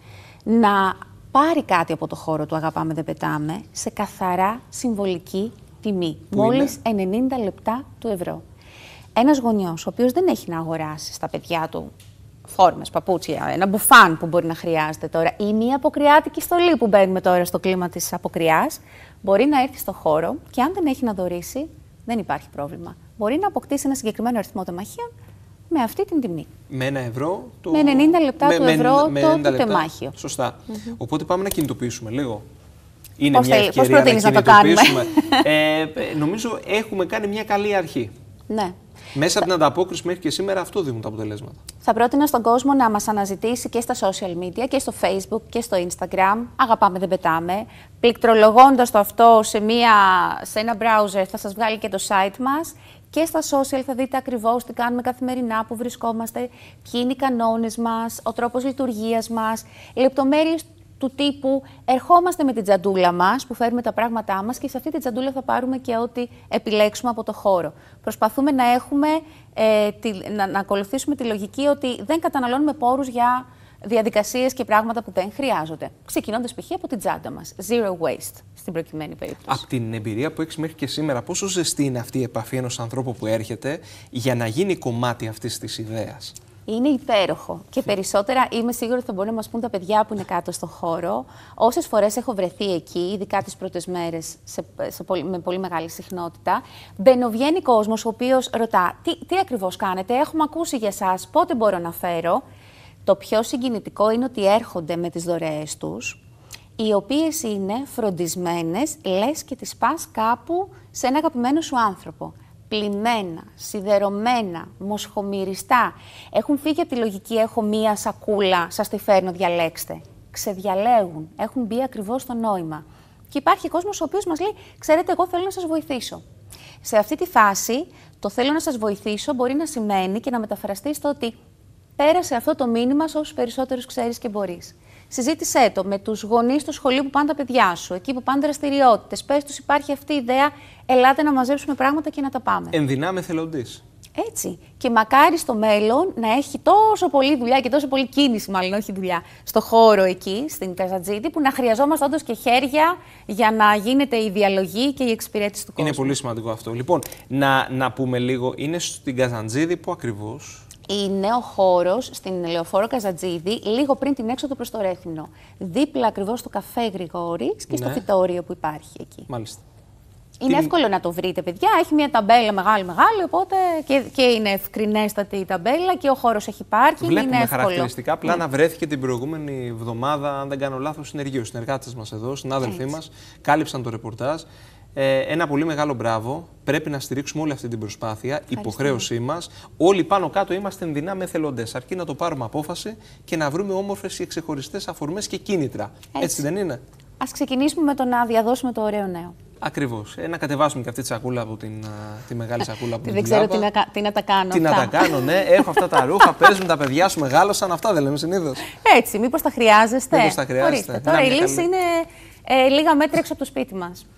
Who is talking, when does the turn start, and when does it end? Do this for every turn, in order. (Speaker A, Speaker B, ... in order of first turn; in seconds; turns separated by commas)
Speaker A: 0.4-8.4, Speaker B: 6.3-6.7, Speaker A: 9.1-11.9, Speaker A: 12.4-25.1, Speaker A: 25.7-26.5, Speaker B: 26.7-32.4, Speaker A: 27.7-30.1, Speaker B: 33.2-38.1, Speaker A: 33.3-35.5, Speaker A: 38.5-38.8, Speaker B: 39.1-41.6, Speaker A: 41.8-79.6, Speaker B: 79.5-86.3, Speaker A: 86.7-102.4, Speaker A: 103.0-106.2, Speaker A: 106.8-126.2, Speaker A: 126.8-131.4, Speaker A: 132.0-142.8, Speaker B: 142.7-143.8, Speaker A: 144.2-156.2, Speaker B: 155.8-160.6, Speaker A: 160.9-169.3, Speaker B: 167.7-168.0, Speaker B: 169.3-169.6, Speaker A: 170.4-178.4, Speaker B: 170.5-170.7, Speaker B: 177.0-196.8, Speaker A: 188.5-189.1, Speaker A: 196.1-196.4, Speaker A: 197.2-199.3, Speaker B: 199.6-203.7, Speaker A: 203.0-206.0, Speaker B: 204.5-208.7, Speaker A: 208.7-214.0, Speaker B: 210.1-211.7